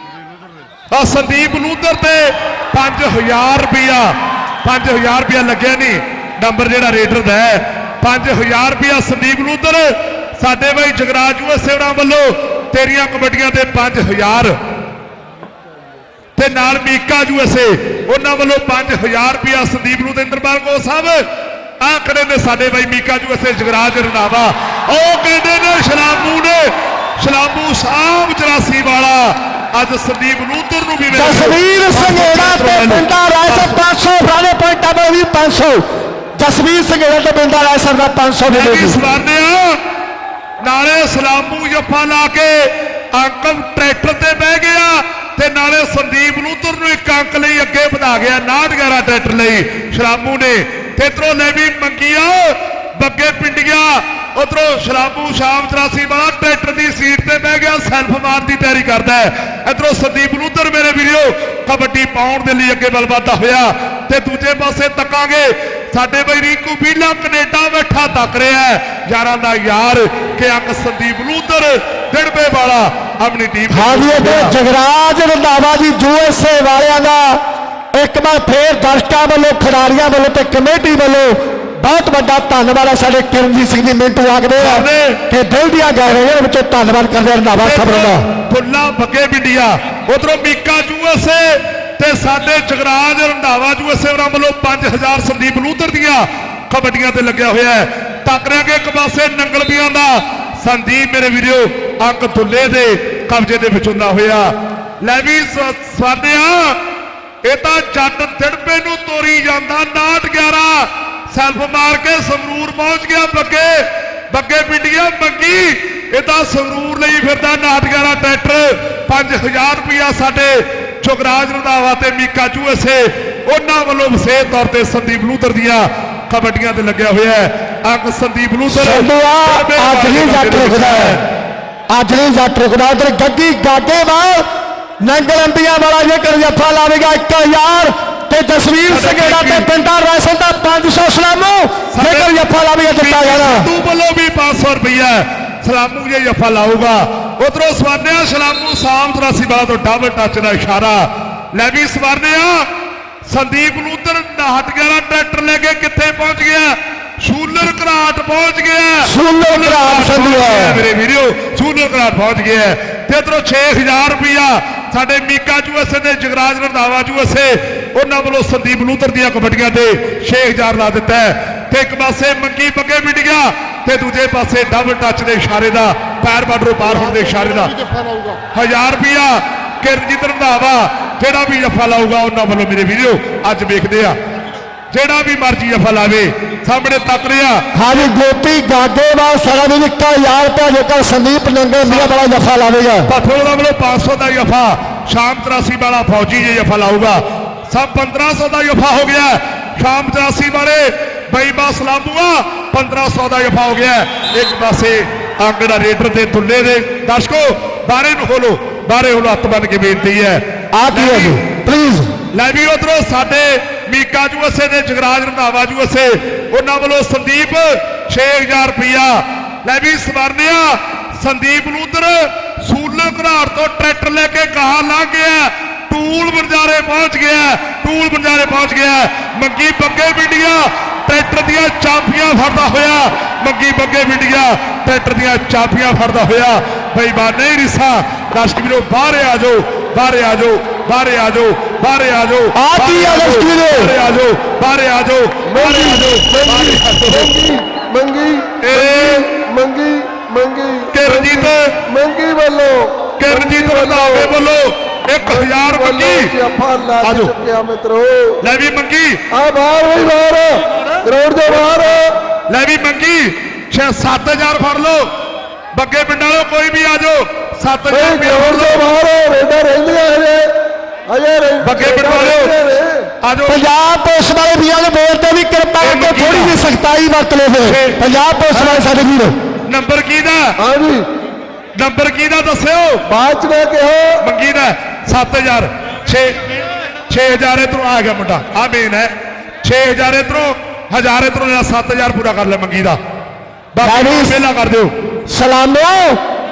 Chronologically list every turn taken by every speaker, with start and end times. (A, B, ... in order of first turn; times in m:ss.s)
0:00.9-0:14.6 A
0:16.4-0:21.2 A
0:21.8-0:33.8 A
0:31.1-0:35.8 B
0:36.4-0:39.0 B
0:38.5-0:39.8 A
0:40.6-1:14.5 A
1:13.7-1:17.4 B
1:17.9-1:28.2 B
1:24.6-1:25.2 A
1:27.6-1:44.5 A
1:45.0-1:46.8 A
1:47.4-2:11.2 A
2:08.7-2:11.2 B
2:11.9-2:14.4 B
2:15.0-2:23.7 B
2:18.9-2:19.7 A
2:21.9-2:22.4 A
2:23.0-2:32.7 A
2:33.3-3:04.2 A
2:39.0-2:40.8 B
3:04.9-3:07.6 A
3:07.7-3:13.1 B
3:11.8-3:12.1 A
3:13.1-3:31.4 A
3:30.7-3:32.1 B
3:32.3-4:07.3 A
4:02.5-4:03.9 B
4:05.5-4:14.3 C
4:08.6-4:09.2 A
4:10.9-4:11.6 A
4:13.2-4:16.3 A
4:15.2-4:18.4 C
4:17.0-4:17.3 A
4:18.4-4:19.2 A
4:19.3-4:22.1 C
4:22.5-4:25.1 A
4:25.7-4:28.9 A
4:27.9-4:30.5 C
4:31.1-4:33.1 C
4:31.6-4:32.6 A
4:33.2-4:33.6 A
4:33.5-4:39.3 B
4:35.8-4:36.6 A
4:37.6-4:38.0 A
4:38.5-4:38.9 A
4:39.7-4:40.4 A
4:40.6-4:41.0 C
4:41.8-4:43.0 A
4:43.1-4:44.2 C
4:44.2-4:46.4 A
4:47.1-4:49.1 A
4:49.6-4:53.0 A
4:53.7-4:55.0 A
4:53.8-4:54.4 B
4:55.3-4:56.2 B